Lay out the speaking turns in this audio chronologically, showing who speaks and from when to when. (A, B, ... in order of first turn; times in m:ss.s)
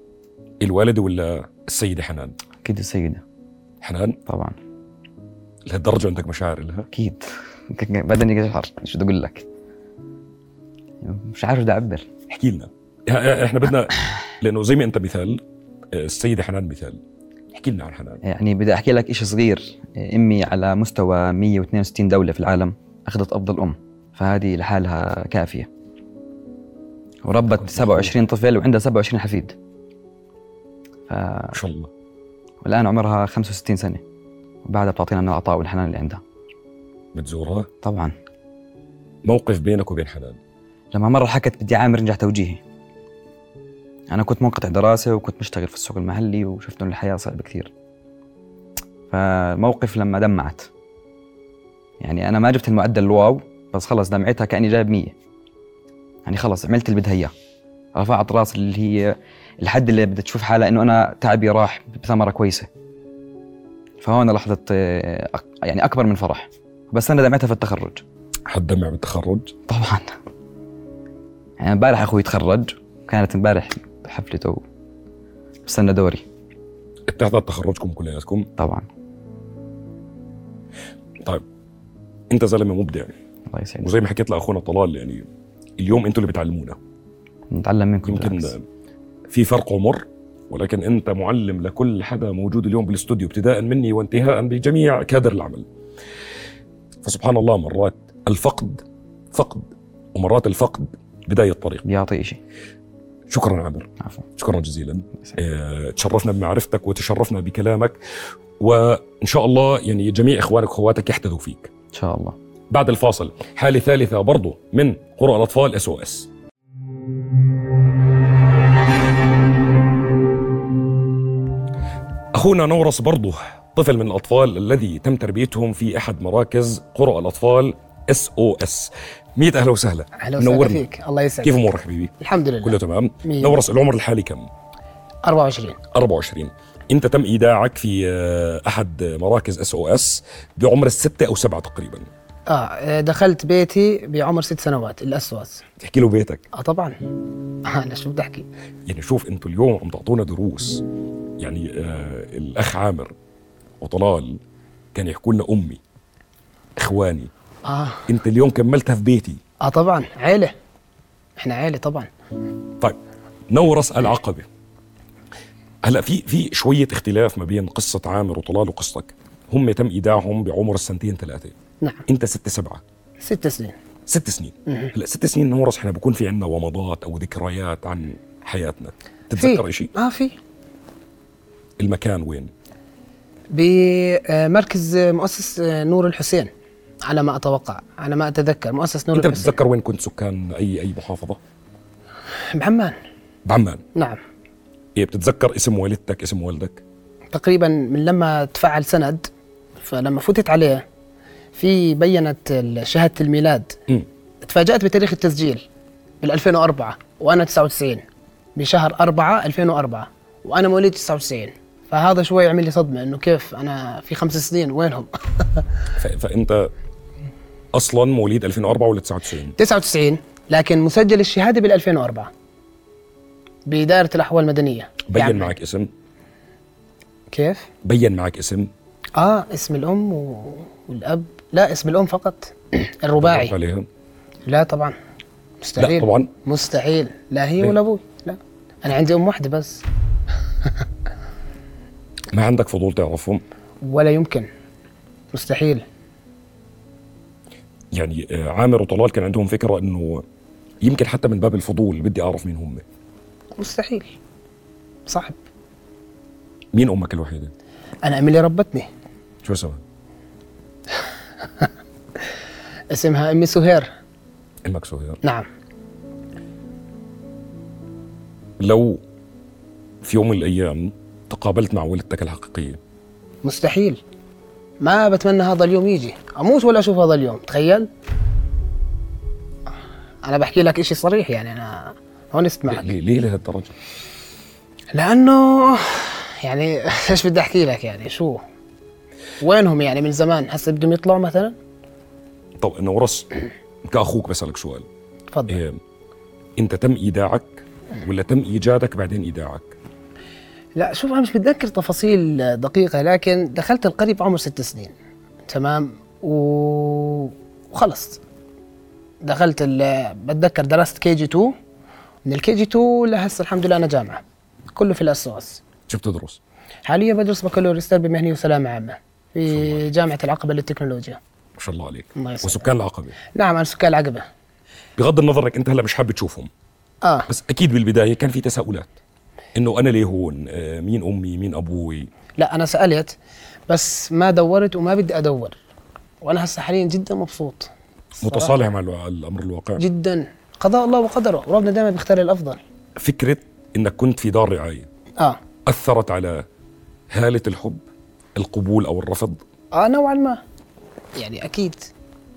0:00.6-0:02.4 A
0:02.6-0:03.2 B
0:03.8-0:04.2 A
0:04.3-0:04.6 B
0:05.7-0:06.9 A
0:06.9-0:09.5 B
0:11.0-0:12.1 B
0:12.3-0:17.0 A
0:17.5-0:18.2 A
0:18.2-0:25.7 B
0:27.2-0:29.6 B
0:27.6-0:28.1 A
0:31.1-0:31.6 B
0:31.5-0:31.9 A
0:32.6-0:34.0 B
0:34.6-0:36.2 B
0:37.2-0:37.7 A
0:37.8-0:38.1 B
0:39.2-0:40.4 A
0:40.9-0:42.6 B
0:44.1-0:47.7 B
0:49.1-0:50.7 B
0:52.0-0:55.2 B
0:56.2-0:57.3 B
0:58.0-1:02.7 B
1:04.0-1:08.0 B
1:08.5-1:09.5 A
1:09.7-1:10.2 B
1:11.6-1:14.6 B
1:15.7-1:16.2 B
1:17.1-1:18.5 A
1:18.6-1:18.9 B
1:22.3-1:23.1 A
1:23.5-1:23.9 B
1:23.8-1:25.3 A
1:25.8-1:26.8 A
1:27.5-1:28.5 B
1:28.0-1:28.6 A
1:29.3-1:35.7 A
1:37.0-1:41.8 A
1:41.8-1:42.4 B
1:43.3-1:48.0 A
1:48.6-1:51.7 A
1:51.9-1:52.4 B
1:52.7-1:56.3 A
2:02.3-2:10.8 A
2:10.2-2:11.6 C
2:11.4-2:14.5 A
2:12.2-2:13.6 C
2:15.2-2:15.8 C
2:15.9-2:22.1 A
2:22.5-2:25.6 C
2:25.8-2:26.4 A
2:26.5-2:27.0 C
2:27.6-2:28.5 C
2:28.9-2:30.8 A
2:31.4-2:33.1 A
2:33.8-2:34.4 A
2:35.0-2:35.8 A
2:36.8-2:37.3 A
2:37.7-2:38.0 C
2:38.1-2:39.4 A
2:39.6-2:40.5 C
2:41.4-2:42.1 C
2:43.5-2:44.5 A
2:45.8-2:51.6 A
2:52.1-2:52.8 A
2:53.2-2:53.8 C
2:54.1-2:59.9 A
2:59.4-3:00.4 C
3:01.8-3:02.5 A
3:03.5-3:06.5 C
3:07.0-3:09.5 C
3:09.1-3:11.4 A
3:12.5-3:13.0 C
3:13.5-3:13.8 A
3:15.0-3:16.8 A
3:17.3-3:19.3 C
3:19.8-3:20.8 C
3:21.6-3:23.8 C
3:24.4-3:25.6 C
3:26.2-3:28.0 C
3:28.6-3:35.6 C
3:36.0-3:36.7 A
3:37.7-3:39.6 A
3:39.6-3:42.3 C
3:43.7-3:45.5 C
3:45.1-3:45.9 A
3:47.3-3:47.7 C
3:47.8-3:48.7 A
3:49.2-3:53.5 C
3:53.2-3:53.9 A
3:54.5-3:55.0 C
3:55.6-3:59.8 C
3:55.8-3:56.3 A
4:02.3-4:03.4 A
4:03.8-4:04.5 C
4:05.3-4:05.8 C
4:07.9-4:10.2 A
4:10.8-4:12.8 A
4:13.6-4:14.1 C
4:15.1-4:15.4 C
4:16.7-4:17.5 A
4:18.0-4:18.9 C
4:19.4-4:19.8 A
4:22.9-4:23.9 C
4:24.6-4:25.2 A
4:28.6-4:29.0 A
4:30.0-4:32.8 A
4:33.4-4:34.0 C
4:34.8-4:37.9 C
4:40.2-4:42.9 C
4:42.7-4:43.7 A
4:44.9-4:48.4 C
4:49.4-4:51.6 C
4:52.6-4:53.3 A
4:53.9-4:54.9 A
4:55.3-4:55.6 C
4:55.5-4:55.8 A
4:56.6-4:59.8 A
5:00.8-5:04.9 C
5:05.5-5:08.2 C
5:09.2-5:11.6 C
5:12.2-5:14.2 C
5:14.7-5:15.6 C
5:15.9-5:16.4 A
5:16.9-5:21.2 C
5:19.5-5:19.9 A
5:21.6-5:23.2 A
5:22.2-5:22.6 C
5:23.3-5:24.3 C
5:25.0-5:26.5 A
5:27.3-5:28.9 A
5:29.6-5:32.1 A
5:32.4-5:33.1 C
5:33.7-5:35.6 C
5:36.2-5:37.7 C
5:38.2-5:39.8 A
5:38.2-5:38.5 C
5:39.8-5:42.6 C
5:43.0-5:44.9 A
5:45.7-5:46.4 A
5:47.1-5:47.8 A
5:48.4-5:49.4 A
5:49.7-5:50.4 C
5:51.2-5:51.9 C